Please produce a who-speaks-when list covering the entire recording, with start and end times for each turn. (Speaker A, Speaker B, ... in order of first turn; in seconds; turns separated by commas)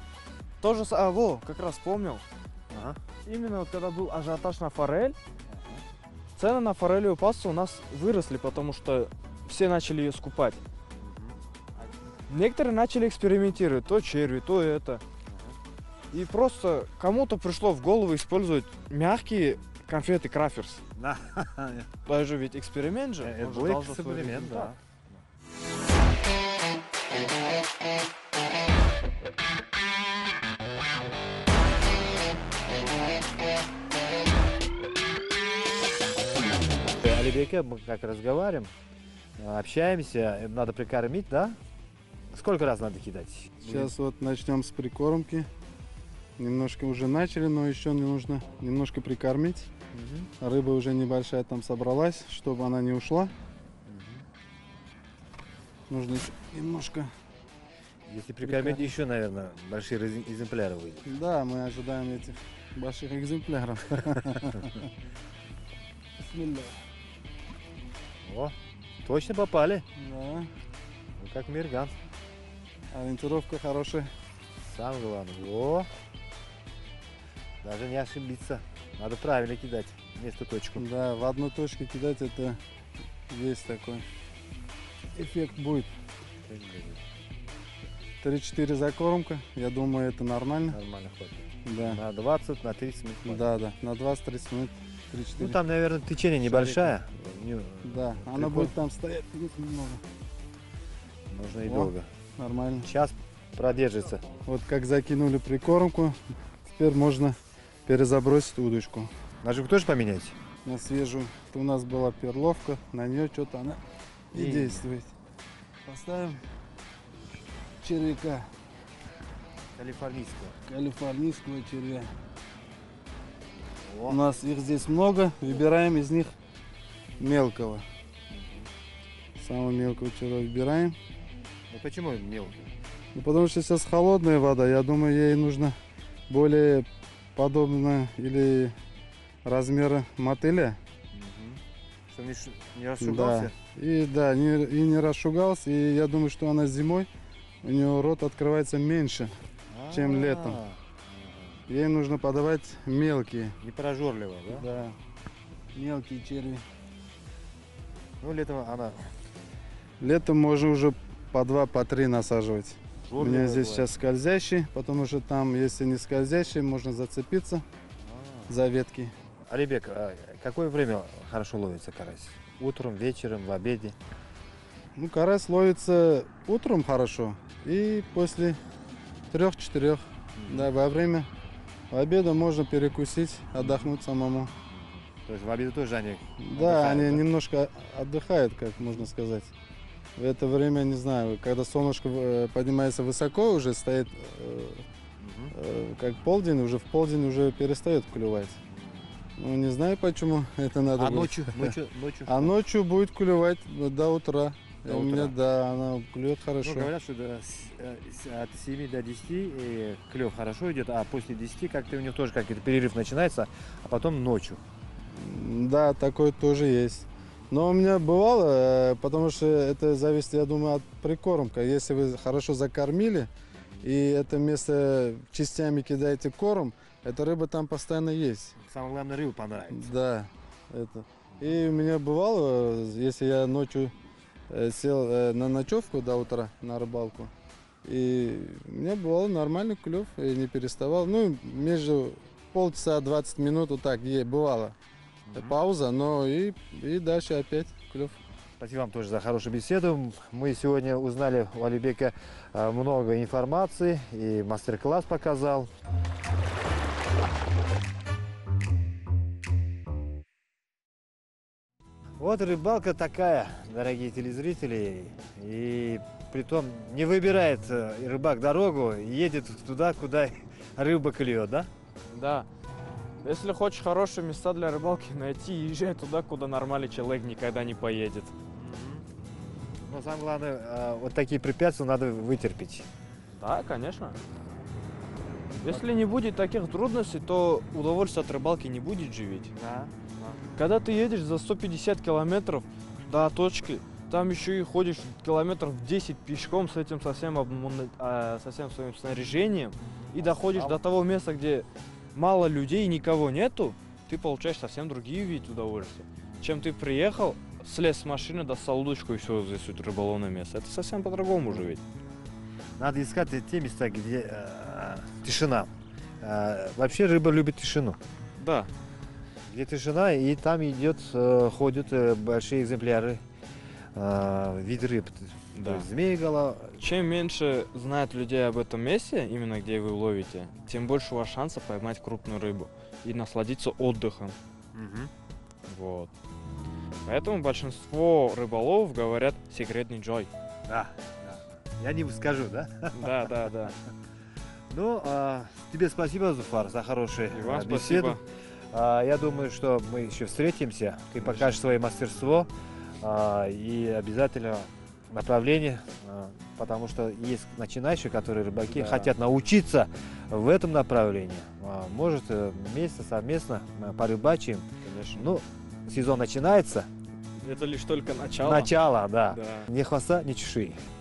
Speaker A: 0.6-2.2, Speaker B: 2.7-3.0, Speaker A: 3.2-5.2, Speaker B: 5.5-5.8, Speaker A: 6.4-10.6, Speaker B: 11.0-11.4, Speaker A: 12.3-15.0, Speaker B: 15.2-15.6, Speaker A: 16.1-20.8, Speaker B: 20.9-21.9, Speaker A: 22.1-24.8, Speaker B: 23.2-25.2, Speaker B: 36.9-38.7, Speaker B: 39.4-41.6, Speaker B: 42.3-43.9, Speaker C: 43.6-45.5, Speaker C: 46.4-49.7, Speaker B: 49.9-50.3, Speaker C: 50.4-53.3, Speaker B: 53.9-54.2, Speaker C: 55.9-57.1, Speaker B: 58.1-61.1, Speaker C: 58.4-58.9, Speaker C: 61.0-64.9, Speaker C: 66.2-66.7, Speaker B: 68.2-69.8, Speaker C: 70.0-70.5, Speaker B: 71.2-71.9, Speaker C: 72.9-74.1, Speaker B: 74.6-75.9, Speaker B: 77.6-80.9, Speaker C: 80.8-82.6, Speaker C: 83.3-84.0, Speaker C: 85.2-85.9, Speaker B: 86.4-87.0, Speaker C: 88.2-90.8, Speaker B: 90.6-93.5, Speaker C: 91.6-92.0, Speaker C: 93.2-95.6, Speaker B: 95.4-98.7, Speaker C: 96.4-97.0, Speaker C: 97.8-100.0, Speaker B: 101.3-102.1, Speaker C: 101.7-102.9, Speaker B: 102.8-104.2, Speaker C: 104.5-109.1, Speaker B: 109.4-110.4, Speaker C: 110.6-113.8, Speaker C: 114.3-115.1, Speaker B: 114.3-114.8, Speaker C: 115.8-116.4, Speaker C: 117.8-118.5, Speaker B: 119.7-120.6, Speaker C: 120.7-122.1, Speaker B: 123.7-124.2, Speaker C: 124.1-126.3, Speaker C: 127.2-127.8, Speaker B: 128.3-128.7, Speaker C: 129.4-130.9, Speaker B: 131.7-132.7, Speaker C: 133.1-135.7, Speaker C: 136.3-138.8, Speaker C: 139.4-140.8, Speaker B: 141.1-143.5, Speaker C: 143.0-147.1, Speaker C: 147.6-149.3, Speaker B: 149.7-151.6, Speaker C: 149.9-150.6, Speaker C: 151.7-153.6, Speaker B: 153.6-154.7, Speaker C: 154.5-154.9, Speaker C: 155.7-156.6, Speaker B: 158.2-159.1, Speaker C: 160.0-167.6, Speaker B: 163.1-163.9, Speaker B: 168.0-168.6, Speaker C: 168.5-169.1, Speaker B: 169.5-174.0, Speaker C: 175.0-178.6, Speaker C: 179.3-181.3, Speaker B: 180.4-180.7, Speaker C: 181.9-184.5, Speaker B: 183.6-183.9, Speaker B: 184.7-187.2, Speaker C: 186.4-189.5, Speaker C: 190.2-194.8, Speaker B: 195.2-195.5, Speaker C: 195.5-198.6, Speaker B: 198.7-199.1, Speaker C: 199.4-201.8, Speaker B: 200.9-202.5, Speaker C: 202.3-206.9, Speaker B: 204.8-205.4, Speaker B: 206.6-214.6, Speaker C: 215.1-223.3, Speaker B: 223.6-223.8, Speaker C: 223.8-228.6, Speaker B: 228.6-229.9, Speaker C: 229.7-233.9, Speaker C: 234.5-237.3, Speaker C: 237.8-244.7, Speaker B: 245.3-245.6, Speaker C: 245.3-248.2, Speaker B: 248.6-255.7, Speaker B: 262.2-271.7, Speaker A: 272.1-272.5, Speaker A: 273.2-278.3, Speaker B: 278.5-279.1, Speaker B: 279.9-282.9, Speaker A: 283.3-284.2, Speaker A: 285.6-289.5, Speaker B: 285.6-285.9, Speaker B: 289.5-290.4, Speaker A: 290.6-311.8, Speaker B: 299.8-300.8, Speaker B: 312.8-318.0, Speaker A: 318.4-318.7, Speaker B: 319.5-323.2, Speaker B: 323.9-326.8, Speaker A: 325.5-325.9, Speaker A: 326.8-334.4, Speaker B: 334.7-335.1, Speaker A: 335.7-336.1, Speaker A: 337.0-340.3, Speaker B: 340.6-343.9, Speaker A: 342.9-343.7, Speaker B: 344.7-348.2, Speaker A: 347.3-348.2, Speaker B: 348.7-366.9, Speaker A: 351.1-351.6, Speaker A: 358.7-359.1, Speaker A: 364.8-365.4, Speaker A: 367.4-368.8, Speaker B: 368.4-370.8, Speaker A: 369.3-369.7